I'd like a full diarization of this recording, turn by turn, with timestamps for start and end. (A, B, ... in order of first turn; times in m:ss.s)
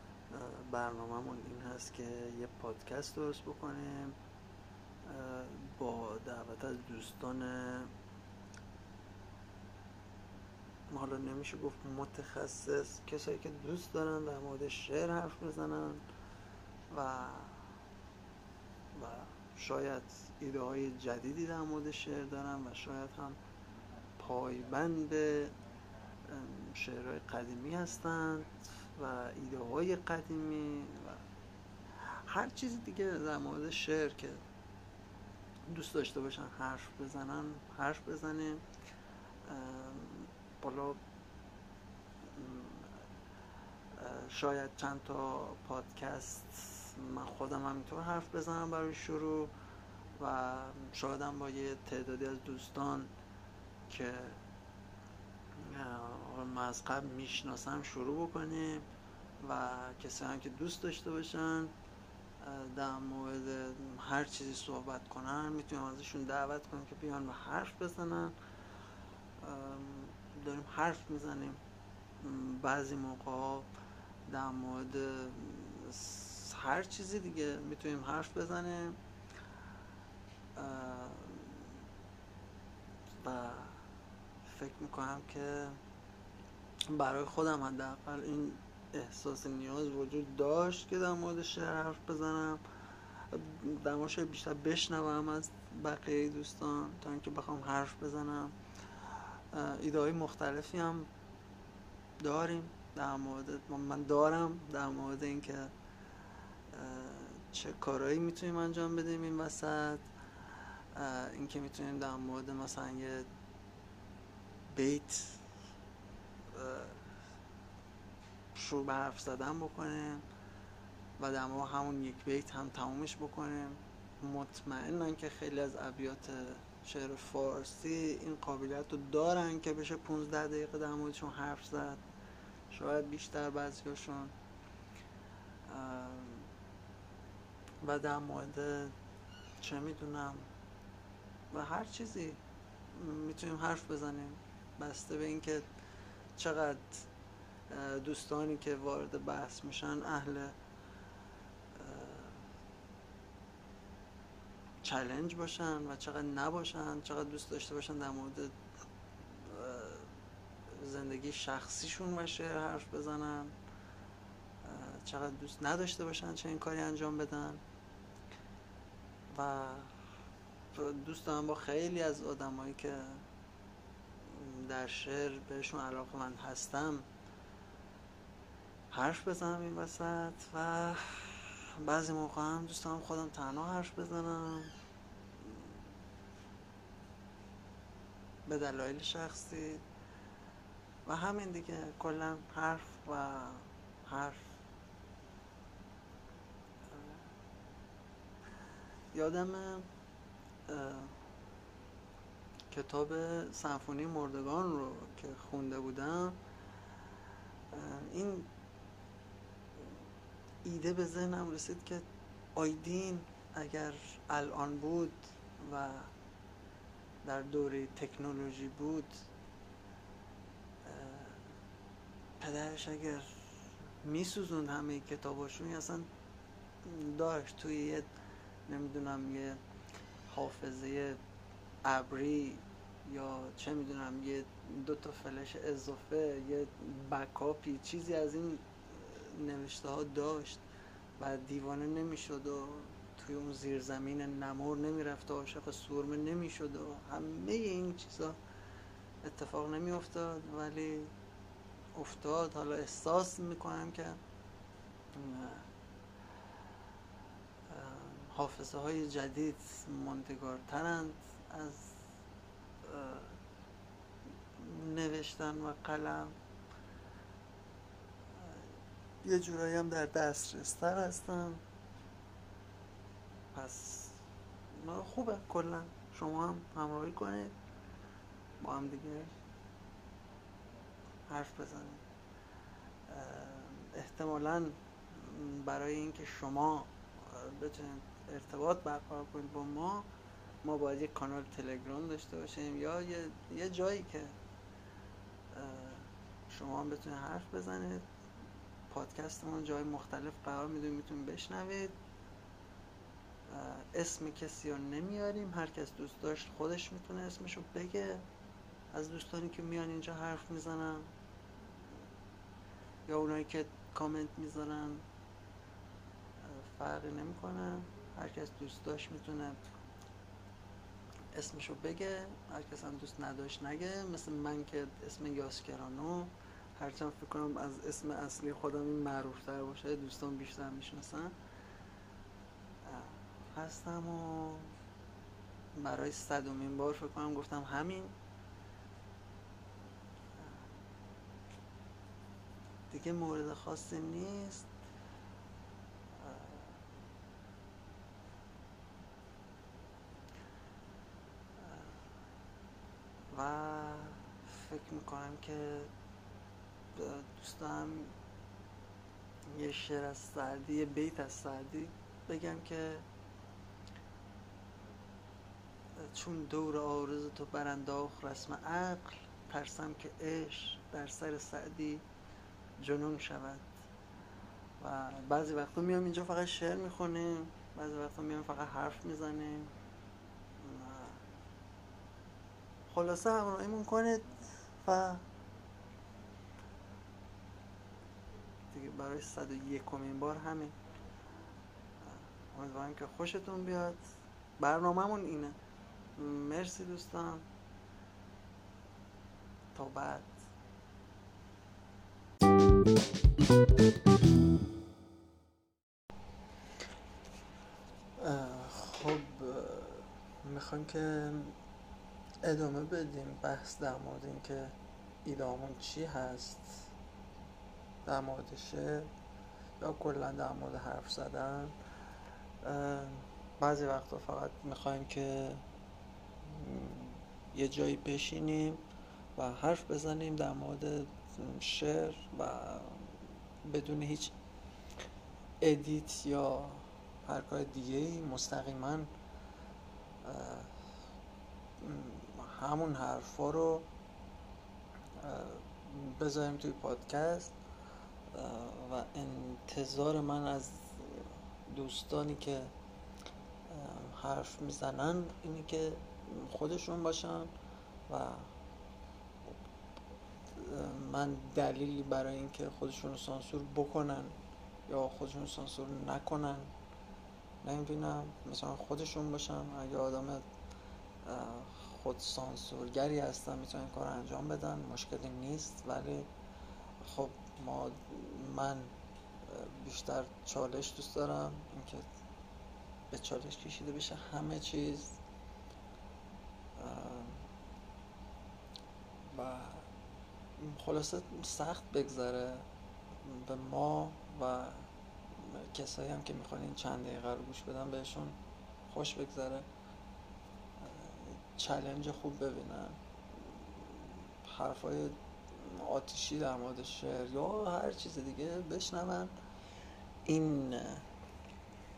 0:00.3-0:04.2 A
0:05.0-0:07.9 A
0:10.9-0:16.0 A
0:16.9-0:17.7 A
0:18.9-0:23.4 A
0:24.2-0:25.6 A
0:26.3-0:31.2 A
0:32.0-0:34.4 A
0:35.7-0:38.6 A
0:39.4-0:41.0 A
0:42.2-0:43.0 A
0:43.9-0:49.5 A
0:50.2-0:53.1 A
0:53.9-0:54.4 A
0:55.6-0:58.9 A
0:59.4-1:01.7 A
1:02.4-1:08.4 A
1:09.4-1:11.6 A
1:12.2-1:13.7 A
1:14.3-1:19.0 A
1:20.6-1:21.8 A
1:23.2-1:23.8 A
1:24.4-1:25.8 A
1:26.9-1:41.1 A
1:42.2-1:45.7 A
1:46.7-1:53.3 A
1:54.7-1:55.4 A
1:56.5-1:57.1 A
1:58.5-2:00.2 A
2:01.2-2:12.0 A
2:12.7-2:14.4 A
2:15.7-2:16.5 A
2:17.8-2:18.9 A
2:19.6-2:20.5 A
2:21.5-2:25.7 A
2:26.4-2:27.1 A
2:27.7-2:30.6 A
2:31.7-2:32.5 A
2:34.8-2:38.6 A
2:39.4-2:40.1 A
2:40.7-2:43.6 A
2:44.6-2:47.6 A
2:49.3-2:50.0 A
2:50.7-2:53.2 A
2:54.2-2:57.1 A
2:58.9-3:04.7 A
3:05.4-3:05.7 A
3:08.5-3:09.8 A
3:11.0-3:14.5 A
3:16.9-3:17.2 A
3:19.1-3:19.9 A
3:20.7-3:21.2 A
3:22.7-3:26.4 A
3:27.7-3:28.5 A
3:30.6-3:36.1 A
3:37.2-3:39.3 A
3:40.8-3:41.5 A
3:42.4-3:43.5 A
3:44.0-3:46.1 A
3:46.8-3:48.1 A
3:48.7-3:49.6 A
3:50.3-3:51.2 A
3:51.8-4:00.6 A
4:01.2-4:08.4 A
4:09.2-4:11.1 A
4:11.9-4:14.2 A
4:15.1-4:15.7 A
4:17.7-4:22.0 A
4:22.8-4:23.4 A
4:24.6-4:26.4 A
4:28.3-4:28.7 A
4:29.2-4:31.6 A
4:33.5-4:34.2 A
4:34.7-4:37.6 A
4:38.6-4:39.3 A
4:41.3-4:42.0 A
4:43.1-4:50.1 A
4:50.6-4:54.4 A
4:55.5-4:58.1 A
4:58.9-5:02.0 A
5:03.5-5:08.2 A
5:08.9-5:11.1 A
5:13.1-5:15.0 A
5:16.4-5:19.6 A
5:21.3-5:31.4 A
5:32.8-5:34.7 A
5:35.8-5:38.2 A
5:42.9-5:44.7 A
5:46.1-5:46.8 A
5:51.6-5:52.0 A
5:53.3-5:55.9 A
5:56.9-5:58.2 A
5:59.5-6:03.1 A
6:06.0-6:12.1 A
6:12.8-6:13.7 A
6:14.8-6:19.8 A
6:20.6-6:21.2 A
6:22.9-6:25.2 A
6:28.7-6:30.8 A
6:32.0-6:34.0 A
6:34.6-6:35.6 A
6:36.2-6:37.5 A
6:39.7-6:40.3 A
6:48.2-6:51.6 A
6:52.4-6:56.9 A
6:58.0-6:59.1 A
6:59.8-7:01.8 A
7:02.6-7:05.6 A
7:06.4-7:14.4 A
7:15.6-7:19.1 A
7:20.2-7:20.8 A
7:21.8-7:23.9 A
7:25.2-7:27.6 A
7:28.3-7:32.7 A
7:33.7-7:37.5 A
7:38.1-7:38.5 A
7:40.5-7:46.7 A
7:47.6-7:50.4 A
7:51.2-7:56.3 A
7:57.0-7:58.9 A
7:59.5-8:02.1 A
8:03.1-8:05.2 A
8:06.8-8:07.5 A
8:09.3-8:09.9 A
8:10.6-8:12.7 A
8:13.2-8:19.7 A
8:20.8-8:29.4 A
8:30.3-8:31.1 A